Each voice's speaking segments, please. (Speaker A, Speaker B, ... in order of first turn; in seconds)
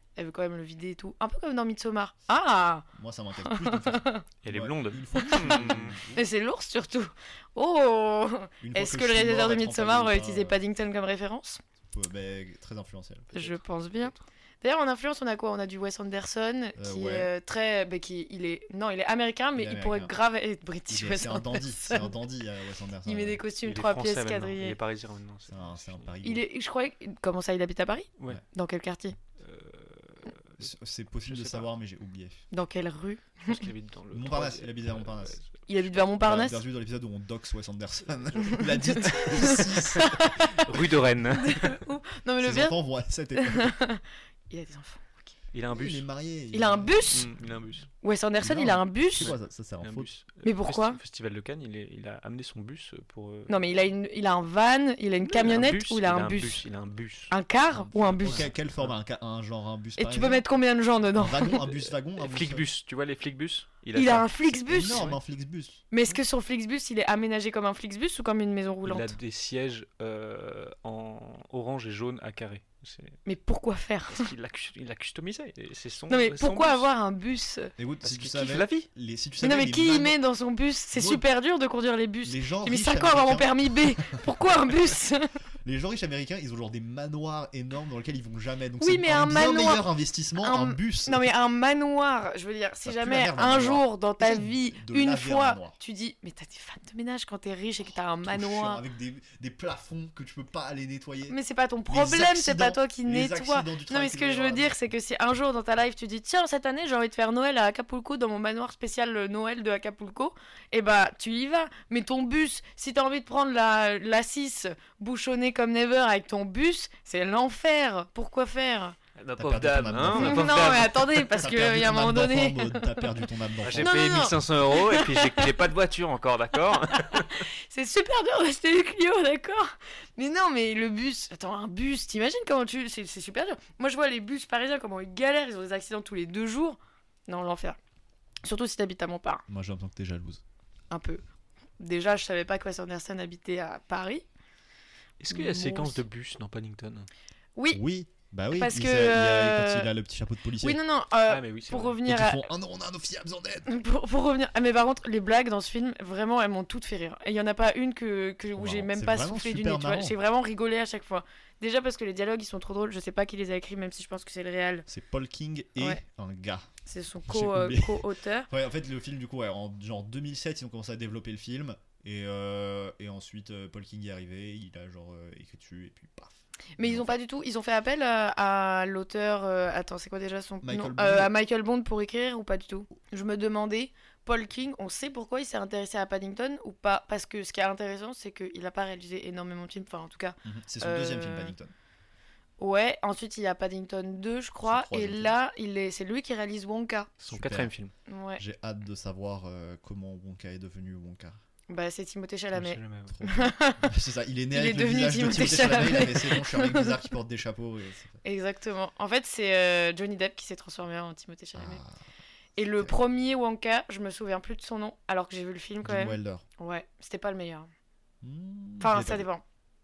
Speaker A: 0.2-2.9, 3.4-4.2, 5.2-5.5, 6.1-11.6, 13.3-22.1, 23.1-24.8, 26.2-29.1, 32.5-33.6, 35.7-36.6, 38.5-40.6, 41.3-42.8, 43.3-45.3, 46.5-47.3, 48.0-49.3, 50.4-51.0, 53.5-56.6, 57.3-58.4, 60.0-61.6, 63.9-65.1, 65.9-69.2, 73.2-74.3, 76.1-77.7, 79.4-85.3, 88.8-89.8, 90.4-98.8, 101.3-119.0, 120.1-123.0, 123.8-125.4, 127.1-137.8, 138.4-139.4, 140.9-141.2, 141.8-144.2, 145.3-146.0, 147.6-147.8, 148.5-149.9, 150.6-152.5, 153.7-164.8, 166.9-168.5, 176.8-191.5, 192.6-197.1, 198.1-198.4, 201.7-203.8, 204.5-206.9, 208.2-211.8, 212.6-217.7, 218.8-219.4
Speaker B: 2.9-6.2, 8.6-10.6, 11.8-13.3, 16.8-17.3, 19.5-20.1, 20.9-23.4, 25.4-26.4, 30.6-32.4, 34.1-35.4, 36.2-40.3, 42.4-43.8, 45.7-47.2, 48.4-50.1, 57.7-60.4, 61.1-62.6, 64.7-65.8, 77.8-80.2, 80.9-81.2, 82.2-84.2, 85.6-91.2, 92.8-95.8, 98.2-101.4, 101.9-104.7, 119.3-124.3, 139.5-140.4, 147.7-150.8, 152.0-153.7, 158.5-160.2, 164.9-166.7, 167.3-177.2, 180.6-181.3, 190.4-191.7, 194.6-195.3, 197.3-197.7, 198.4-201.4, 203.1-208.2, 211.5-212.0, 215.8-216.4, 218.2-219.3
Speaker C: 4.4-6.0, 13.3-14.2, 23.6-26.1, 29.4-30.7, 31.2-31.7, 33.5-35.5, 38.3-41.8, 45.5-46.0, 47.1-47.9, 49.2-53.6, 55.2-57.3, 58.2-58.9, 61.6-65.2, 68.8-73.2, 74.1-76.9, 78.0-78.9, 119.2-121.2, 123.6-127.4, 145.2-147.1, 151.2-152.0, 197.2-197.9, 202.5-203.2